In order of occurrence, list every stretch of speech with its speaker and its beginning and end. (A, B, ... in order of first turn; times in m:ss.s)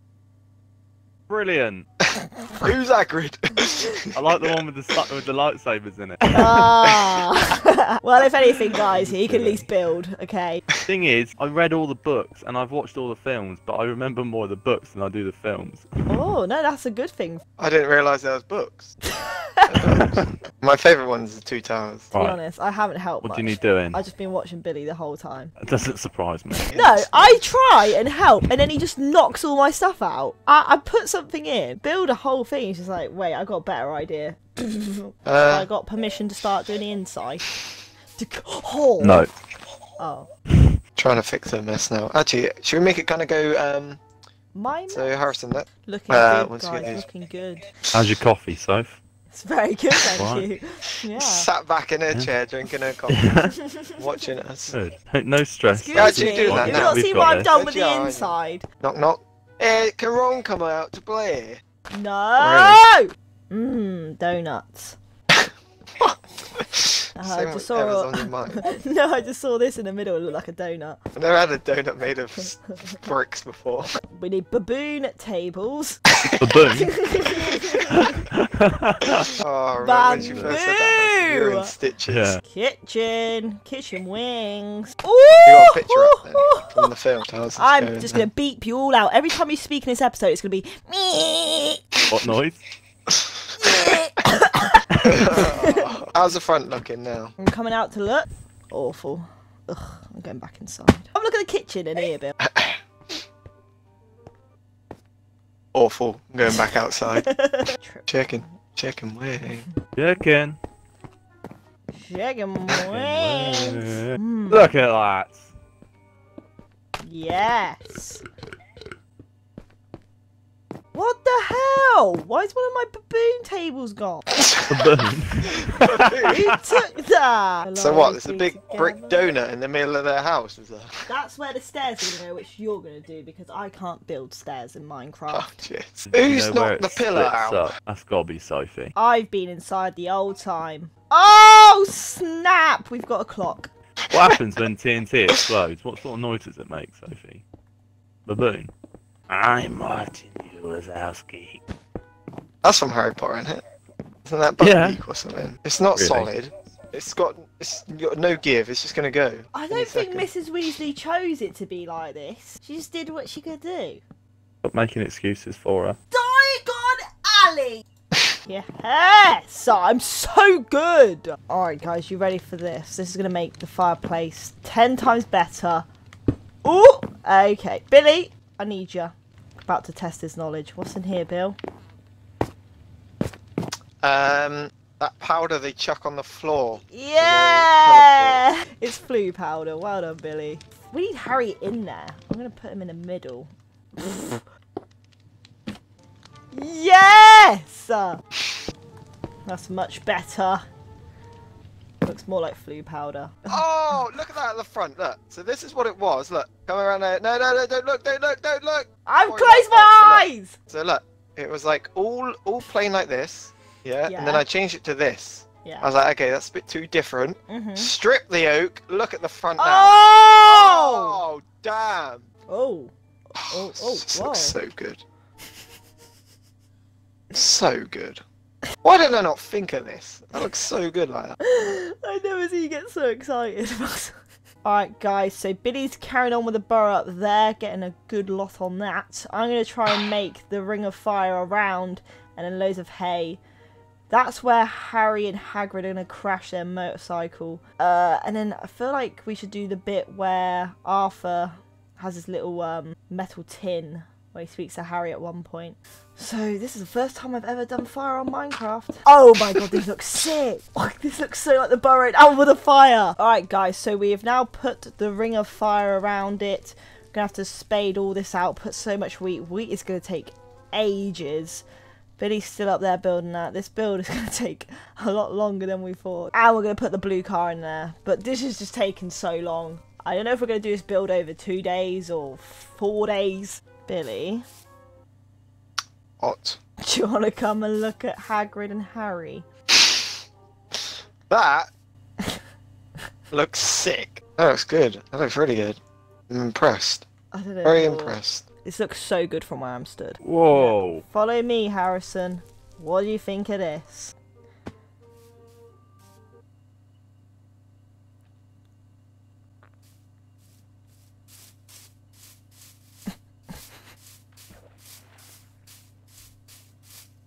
0:01.3-0:01.9 A
0:02.6-0:04.1 B
0:04.1-0:06.7 A
0:06.4-0:10.6 C
0:06.8-0:07.2 B
0:08.9-0:09.7 A
0:10.9-0:16.1 A
0:16.1-0:17.4 C
0:17.6-0:19.0 B
0:19.1-0:19.8 C
0:19.7-0:22.1 B
0:22.1-0:22.4 A
0:22.1-0:25.6 C
0:23.2-0:24.0 A
0:25.6-0:26.8 A
0:26.7-0:27.4 B
0:26.7-0:37.5 C
0:35.3-0:35.7 B
0:38.2-0:39.3 C
0:39.0-0:39.3 A
0:40.0-0:40.3 C
0:41.0-0:44.0 B
0:44.6-0:45.2 C
0:44.9-0:47.0 B
0:45.8-0:47.7 C
0:47.9-0:49.0 A
0:49.3-0:51.5 C
0:50.2-0:50.5 A
0:51.1-0:53.3 B
0:53.1-0:53.5 A
0:53.5-0:53.9 C
0:54.0-0:54.8 B
0:54.7-0:57.5 A
0:55.7-0:58.6 C
0:56.0-1:01.6 B
1:01.9-1:05.0 C
1:02.4-1:02.8 B
1:06.0-1:08.7 B
1:07.2-1:11.0 C
1:11.1-1:13.9 B
1:14.2-1:16.0 C
1:16.4-1:16.9 A
1:16.7-1:18.2 C
1:17.9-1:19.3 A
1:19.4-1:22.4 B
1:19.8-1:21.7 C
1:20.1-1:20.6 A
1:22.1-1:22.4 A
1:22.4-1:26.9 C
1:25.4-1:28.2 B
1:27.6-1:31.8 C
1:32.1-1:32.6 A
1:33.6-1:36.0 C
1:35.0-1:37.4 B
1:37.4-1:42.3 C
1:42.4-1:42.8 B
1:45.7-1:47.3 B
1:47.2-1:48.1 C
1:48.1-1:49.7 B
1:50.0-1:50.6 A
1:51.9-1:54.7 C
1:52.7-1:55.5 A
1:57.0-1:58.2 C
2:00.9-2:04.2 C
2:04.4-2:04.6 B
2:04.7-2:06.1 A
2:05.7-2:06.6 B
2:06.3-2:09.2 C
2:07.8-2:11.1 B
2:11.1-2:15.6 C
2:15.3-2:17.7 B
2:16.1-2:18.9 A
2:19.0-2:23.7 C
2:24.1-2:27.4 A
2:28.3-2:28.7 A
2:29.3-2:31.6 A
2:32.6-2:33.6 B
2:34.3-2:40.3 B
2:34.6-2:35.0 A
2:36.0-2:36.3 A
2:39.5-2:44.0 C
2:44.6-2:46.0 A
2:46.1-2:47.8 C
2:48.5-2:55.8 C
2:56.6-3:01.6 C
3:04.0-3:08.5 B
3:06.9-3:14.4 C
3:16.5-3:18.2 C
3:19.5-3:20.6 C
3:22.0-3:24.0 C
3:23.5-3:42.2 B
3:29.1-3:30.6 C
3:34.1-3:34.4 C
3:37.5-3:37.9 C
3:39.6-3:41.2 C
3:42.5-3:44.6 C
3:43.5-3:45.0 B
3:47.3-3:48.2 B
3:48.8-3:51.4 B
3:51.4-4:03.4 C
4:04.1-4:31.6 C
4:32.2-4:44.4 C
4:46.2-4:46.6 B
4:46.8-4:49.4 C
4:49.8-4:50.1 B
4:50.8-4:51.7 B
4:53.3-4:57.1 B
4:57.3-5:04.2 C
4:57.6-4:58.5 B
5:00.2-5:01.0 A